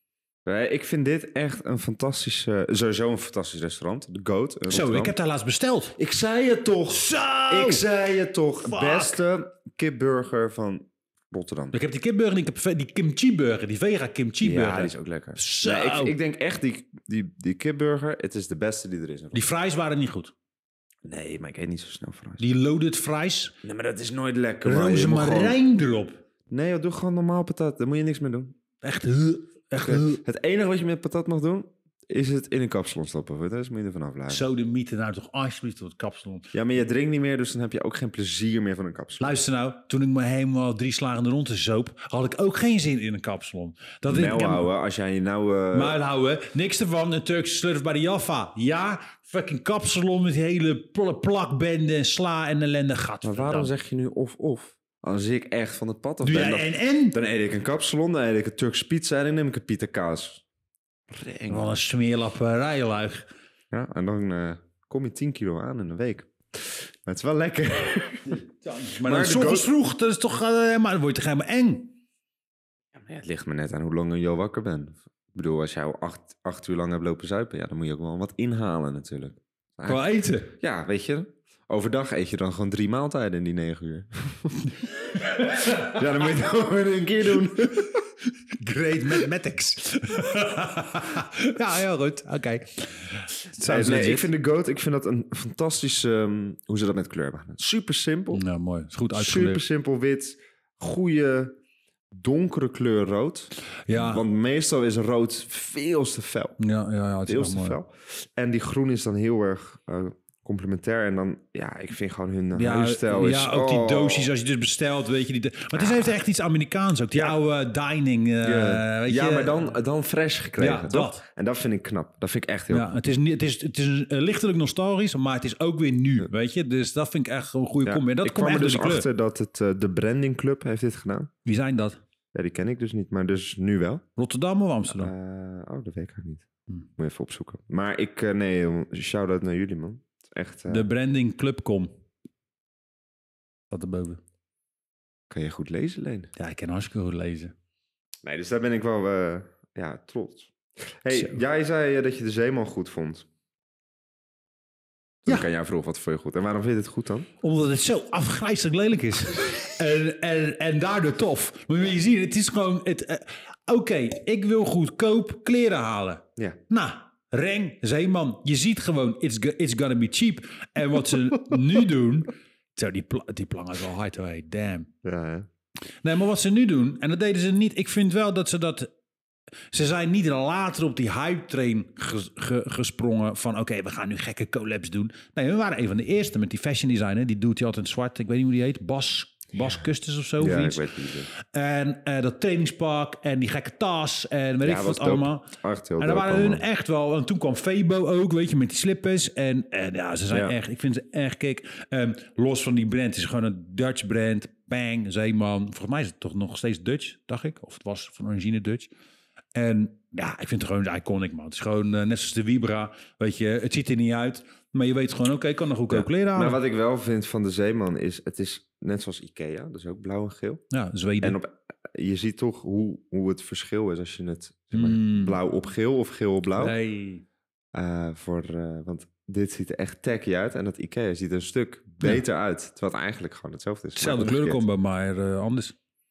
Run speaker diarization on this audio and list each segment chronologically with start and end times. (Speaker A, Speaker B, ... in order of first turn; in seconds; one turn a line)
Speaker A: 0.5-5.1
Speaker B: 4.7-6.0
Speaker A: 6.0-11.8
Speaker B: 6.9-7.8
Speaker B: 8.6-9.2
Speaker B: 11.7-16.1
Speaker A: 14.4-19.5
Speaker B: 19.3-20.3
Speaker A: 21.0-22.4
Speaker B: 22.4-23.5
Speaker A: 23.6-25.6
Speaker B: 24.6-26.2
Speaker A: 26.5-28.5
Speaker B: 28.8-30.2
Speaker A: 29.7-34.4
Speaker B: 34.3-36.5
Speaker A: 36.5-39.4
Speaker B: 39.2-44.7
Speaker A: 44.1-46.0
Speaker B: 45.7-53.7
Speaker A: 53.2-60.4
Speaker B: 56.2-57.1
Speaker A: 61.1-61.7
Speaker B: 61.5-63.3
Speaker A: 63.7-68.4
Speaker B: 68.3-71.9
Speaker A: 69.0-69.7
Speaker A: 72.9-88.0
Speaker B: 79.8-80.5
Speaker B: 88.5-94.3
Speaker A: 93.6-98.4
Speaker B: 98.3-99.6
Speaker A: 99.1-101.5
Speaker A: 102.1-106.6
Speaker B: 103.9-104.2
Speaker B: 106.6-107.8
Speaker A: 107.2-114.3
Speaker B: 112.5-119.7
Speaker A: 115.7-116.2
Speaker A: 118.4-122.9
Speaker B: 120.6-121.2
Speaker B: 122.7-129.1
Speaker A: 127.8-131.3
Speaker B: 131.4-132.0
Speaker A: 132.3-134.0
Speaker B: 134.2-135.1
Speaker A: 134.9-140.9
Speaker B: 140.7-141.9
Speaker B: 143.7-144.2
Speaker A: 145.3-146.3
Speaker B: 146.3-147.5
Speaker A: 148.2-153.3
Speaker B: 151.1-151.4
Speaker A: 155.2-157.3
Speaker B: 157.4-174.9
Speaker A: 175.0-175.5
Speaker B: 176.0-178.9
Speaker B: 179.7-195.5
Speaker A: 190.4-191.3
Speaker A: 194.6-196.6
Speaker B: 196.0-208.9
Speaker A: 200.3-200.6
Speaker B: 209.5-216.6
Speaker A: 215.9-220.6
Speaker B: 220.7-221.4
Speaker A: 221.2-226.8
Speaker B: 224.7-225.4
Speaker B: 226.6-227.2
Speaker A: 227.7-234.6
Speaker B: 233.9-235.7